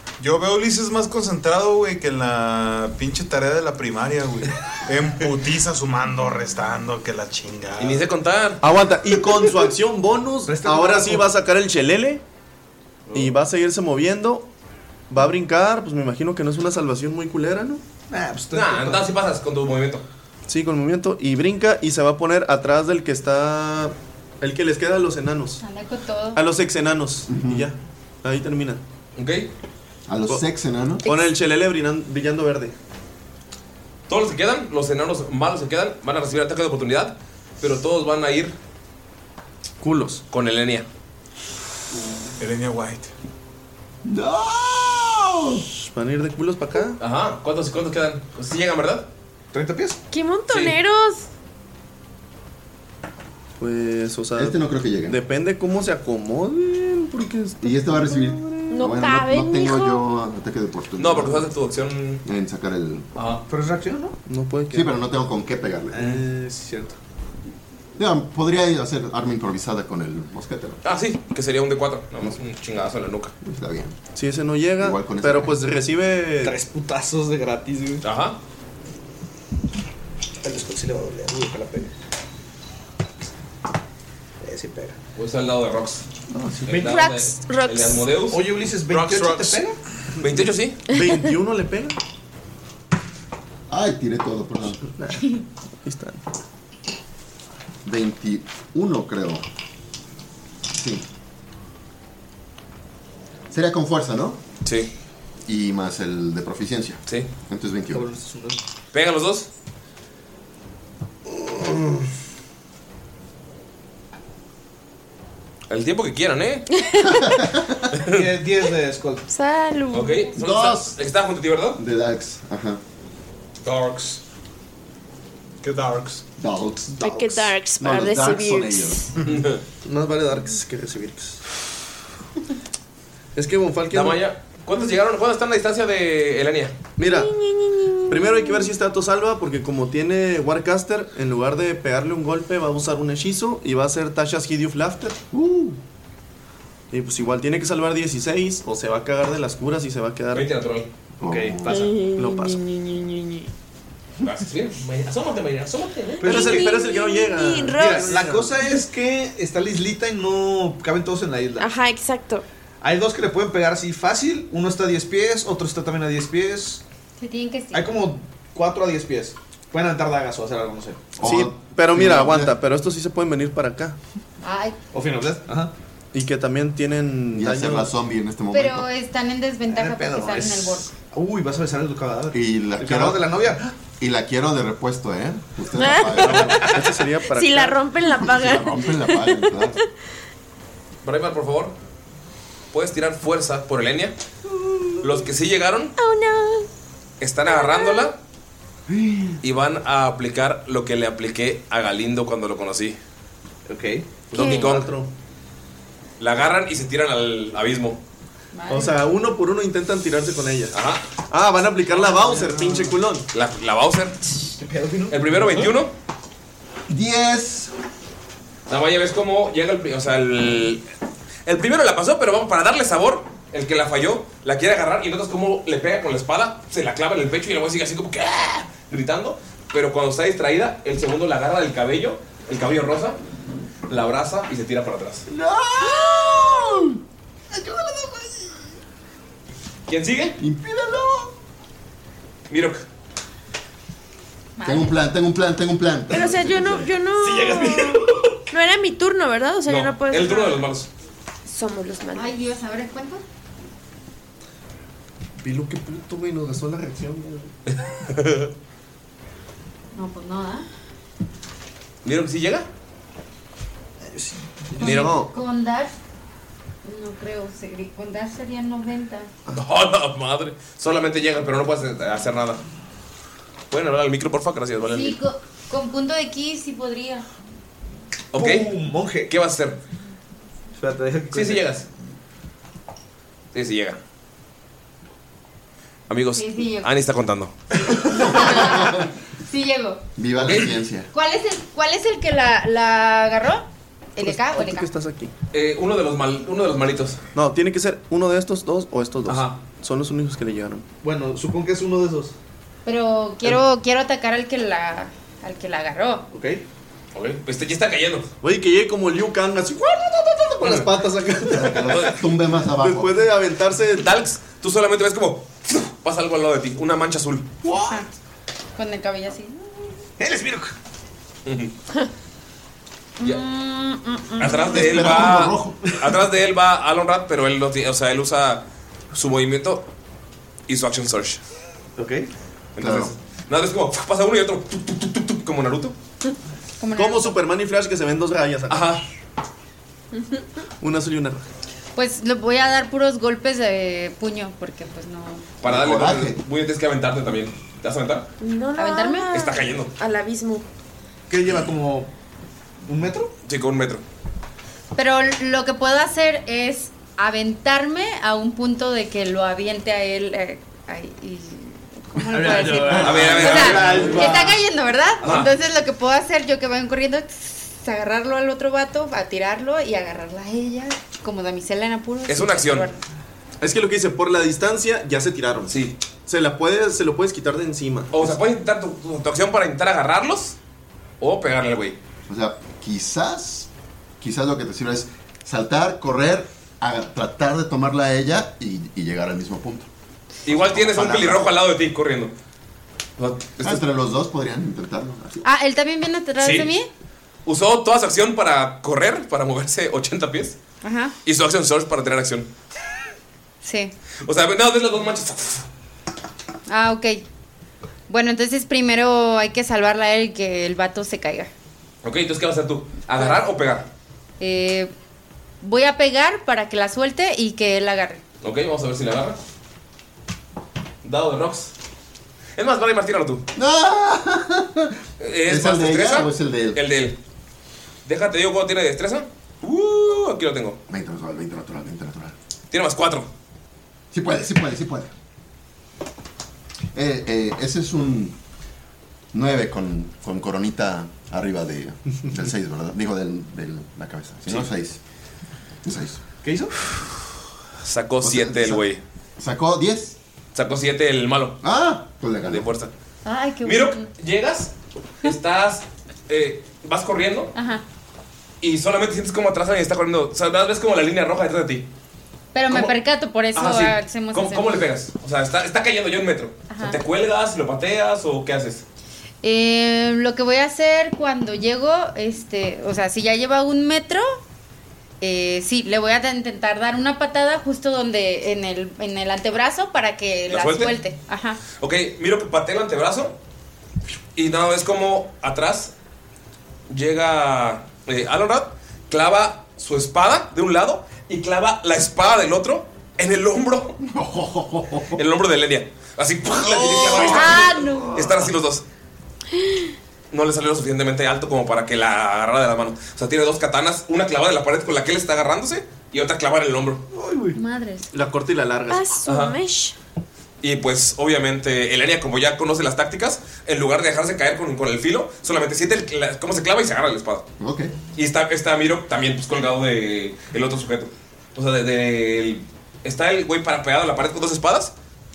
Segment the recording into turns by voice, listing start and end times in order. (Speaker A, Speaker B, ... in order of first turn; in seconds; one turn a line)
Speaker A: 0.2-8.1
Speaker B: 7.8-8.6
Speaker C: 8.6-12.2
Speaker D: 10.5-11.3
Speaker C: 13.1-14.5
Speaker C: 15.1-17.8
Speaker D: 18.1-19.1
Speaker B: 18.5-20.1
Speaker C: 20.5-25.6
Speaker E: 25.6-26.4
Speaker C: 26.4-28.8
Speaker F: 27.3-27.7
Speaker B: 29.2-29.5
Speaker F: 30.1-31.0
Speaker C: 31.1-32.7
Speaker B: 34.1-38.5
Speaker C: 39.8-40.2
Speaker B: 40.3-40.9
Speaker A: 42.4-43.1
Speaker F: 44.0-45.6
Speaker C: 45.8-47.0
Speaker B: 47.0-49.1
Speaker D: 49.5-50.0
Speaker G: 50.1-51.3
Speaker B: 50.5-50.8
Speaker C: 53.6-58.7
Speaker F: 54.4-55.2
Speaker F: 57.6-61.5
Speaker G: 58.7-60.0
Speaker B: 61.0-62.2
Speaker F: 62.2-63.1
Speaker B: 63.1-63.4
Speaker D: 63.5-64.2
Speaker C: 64.3-64.9
Speaker F: 64.7-66.2
Speaker D: 65.9-67.0
Speaker F: 68.0-70.8
Speaker B: 70.8-73.3
Speaker F: 73.4-74.0
Speaker C: 74.1-76.5
Speaker F: 74.8-75.7
Speaker D: 76.4-78.0
Speaker B: 78.0-78.4
Speaker D: 80.4-81.9
Speaker D: 84.4-85.0
Speaker B: 85.2-86.0
Speaker C: 86.3-86.8
Speaker D: 86.6-87.0
Speaker B: 86.7-88.4
Speaker G: 86.8-88.1
Speaker D: 88.3-89.8
Speaker A: 88.9-89.6
Speaker B: 90.2-90.8
Speaker C: 90.2-92.0
Speaker F: 93.7-94.9
Speaker C: 95.0-96.2
Speaker F: 97.8-99.4
Speaker F: 100.7-101.0
Speaker F: 103.5-104.4
Speaker B: 104.6-104.9
Speaker F: 105.5-108.1
Speaker D: 107.9-108.6
Speaker B: 108.9-109.5
Speaker F: 111.4-111.8
Speaker B: 115.7-116.7
Speaker G: 116.9-117.2
Speaker F: 117.4-117.8
Speaker B: 117.9-118.2
Speaker D: 118.1-119.2
Speaker G: 119.3-120.3
Speaker B: 119.9-121.8
Speaker F: 120.4-121.0
Speaker F: 121.8-122.8
Speaker A: 123.6-124.2
Speaker A: 125.6-126.2
Speaker F: 126.4-129.1
Speaker G: 127.0-129.1
Speaker B: 129.3-129.6
Speaker C: 129.8-131.4
Speaker C: 133.3-134.2
Speaker B: 133.9-136.7
Speaker C: 137.0-137.3
Speaker G: 137.0-138.7
Speaker C: 138.1-145.2
Speaker F: 145.3-145.8
Speaker C: 146.9-150.5
Speaker B: 150.3-150.9
Speaker D: 151.2-151.9
Speaker F: 151.2-151.9
Speaker G: 151.7-153.5
Speaker C: 152.1-152.6
Speaker B: 154.2-156.5
Speaker D: 156.2-156.7
Speaker G: 156.2-158.2
Speaker C: 156.2-158.7
Speaker D: 157.7-161.7
Speaker G: 161.6-162.4
Speaker D: 162.8-166.8
Speaker E: 167.2-167.9
Speaker D: 167.7-171.0
Speaker F: 171.2-172.6
Speaker C: 171.2-174.0
Speaker E: 174.4-174.8
Speaker D: 174.9-175.7
Speaker C: 176.1-177.9
Speaker F: 177.3-178.9
Speaker E: 178.5-180.9
Speaker D: 179.7-183.8
Speaker F: 182.3-186.6
Speaker G: 185.7-186.7
Speaker D: 186.4-186.8
Speaker C: 186.6-187.8
Speaker G: 187.2-189.8
Speaker F: 188.2-189.8
Speaker B: 191.0-191.8
Speaker B: 192.7-194.2
Speaker B: 195.0-195.9
Speaker G: 196.0-196.7
Speaker B: 197.2-198.2
Speaker G: 197.4-198.1
Speaker F: 198.9-199.4
Speaker B: 199.4-203.0
Speaker D: 203.7-204.2
Speaker B: 204.3-204.9
Speaker G: 204.3-204.8
Speaker C: 204.3-205.1
Speaker B: 206.2-208.0
Speaker E: 208.5-209.0
Speaker C: 208.7-210.8
Speaker B: 210.7-211.0
Speaker C: 211.3-213.3
Speaker D: 211.9-213.0
Speaker B: 213.3-214.2
Speaker D: 214.6-215.8
Speaker B: 215.1-215.9
Speaker F: 216.9-217.7
Speaker B: 218.7-220.8
Speaker B: 221.4-233.2
Speaker B: 233.9-235.2
Speaker F: 235.3-236.9
Speaker D: 237.6-238.3
Speaker B: 239.9-240.4
Speaker F: 240.4-241.3
Speaker B: 242.5-242.8
Speaker E: 244.6-244.9
Speaker F: 244.6-246.8
Speaker G: 246.1-250.7
Speaker D: 247.2-248.3
Speaker B: 249.7-250.9
Speaker G: 251.5-252.3
Speaker E: 252.1-253.2
Speaker C: 255.4-257.5
Speaker B: 257.7-258.5
Speaker E: 259.9-260.7
Speaker B: 262.0-262.7
Speaker D: 264.0-264.8
Speaker C: 264.8-265.3
Speaker E: 264.8-265.9
Speaker B: 264.8-265.1
Speaker E: 266.8-269.3
Speaker B: 269.5-272.6
Speaker B: 273.7-275.2
Speaker E: 274.8-277.2
Speaker B: 278.3-278.7
Speaker D: 278.4-279.3
Speaker B: 279.3-279.8
Speaker D: 280.8-281.7
Speaker B: 281.3-281.9
Speaker B: 283.5-284.0
Speaker B: 286.1-287.5
Speaker E: 286.4-286.9
Speaker E: 288.1-290.0
Speaker F: 288.1-289.1
Speaker F: 290.2-291.1
Speaker B: 290.5-290.8
Speaker E: 291.1-294.9
Speaker C: 294.2-295.3
Speaker B: 295.5-297.2
Speaker C: 297.4-300.9
Speaker B: 299.3-299.6
Speaker D: 301.0-302.3
Speaker E: 302.9-306.3
Speaker D: 306.3-306.6
Speaker B: 307.1-308.3
Speaker C: 308.4-312.1
Speaker F: 311.4-313.1
Speaker B: 311.9-312.2
Speaker C: 312.7-314.1
Speaker B: 314.0-317.5
Speaker D: 317.6-318.0
Speaker E: 318.8-319.9
Speaker D: 320.2-320.7
Speaker B: 321.5-321.7
Speaker G: 323.2-325.1
Speaker B: 324.4-329.9
Speaker F: 324.7-325.8
Speaker B: 330.7-331.4
Speaker D: 332.0-332.3
Speaker B: 332.8-335.9
Speaker F: 332.8-333.1
Speaker E: 336.8-337.4
Speaker C: 336.9-339.0
Speaker B: 338.7-339.0
Speaker C: 340.8-341.4
Speaker E: 341.9-345.4
Speaker B: 345.6-348.3
Speaker F: 345.6-346.4
Speaker G: 348.4-350.6
Speaker E: 348.8-349.3
Speaker B: 349.3-349.9
Speaker D: 351.3-352.1
Speaker D: 352.9-353.3
Speaker B: 353.4-354.0
Speaker E: 354.9-373.0
Speaker D: 362.2-364.6
Speaker B: 362.9-364.3
Speaker C: 363.9-364.4
Speaker B: 365.2-365.5
Speaker B: 372.3-372.9
Speaker C: 373.6-375.8
Speaker B: 375.7-376.0
Speaker C: 376.3-378.2
Speaker B: 378.1-380.6
Speaker B: 381.2-382.0
Speaker F: 382.3-383.7
Speaker F: 384.2-389.9
Speaker B: 390.4-392.3
Speaker F: 390.5-391.6
Speaker B: 393.2-393.8
Speaker F: 393.6-395.4
Speaker E: 395.4-396.9
Speaker B: 396.4-396.7
Speaker B: 397.5-400.6
Speaker E: 400.8-401.1
Speaker B: 401.2-402.5
Speaker E: 403.6-403.9
Speaker B: 404.2-405.7
Speaker E: 406.7-407.2
Speaker E: 408.1-411.5
Speaker B: 412.0-413.9
Speaker E: 414.4-414.9
Speaker E: 415.6-418.2
Speaker B: 418.4-419.4
Speaker B: 421.0-421.7
Speaker B: 422.6-423.4
Speaker F: 423.6-426.8
Speaker B: 425.2-427.2
Speaker B: 428.1-430.8
Speaker F: 430.9-432.4
Speaker B: 432.7-433.3
Speaker F: 434.1-435.1
Speaker F: 436.9-438.4
Speaker F: 439.3-445.0
Speaker F: 445.9-446.2
Speaker D: 446.4-446.8
Speaker B: 447.8-449.0
Speaker F: 448.2-448.9
Speaker F: 449.4-450.2
Speaker B: 450.6-451.6
Speaker F: 451.6-452.7
Speaker B: 452.5-452.9
Speaker E: 453.2-454.1
Speaker B: 453.6-454.7
Speaker B: 455.2-457.5
Speaker E: 457.6-457.8
Speaker B: 458.6-461.9
Speaker E: 462.5-464.8
Speaker B: 463.5-468.9
Speaker E: 466.7-467.0
Speaker E: 469.4-474.4
Speaker E: 475.2-481.6
Speaker B: 480.5-481.0
Speaker B: 481.7-483.4
Speaker B: 484.4-485.9
Speaker B: 486.9-494.0
Speaker F: 494.1-495.2
Speaker B: 495.1-498.8
Speaker C: 496.6-498.5
Speaker F: 496.9-497.3
Speaker E: 497.3-498.1
Speaker B: 500.3-507.0
Speaker D: 507.1-507.6
Speaker E: 507.6-508.1
Speaker C: 508.1-509.2
Speaker G: 508.9-509.9
Speaker B: 509.3-509.6
Speaker B: 510.6-517.5
Speaker F: 517.6-518.0
Speaker B: 518.1-524.9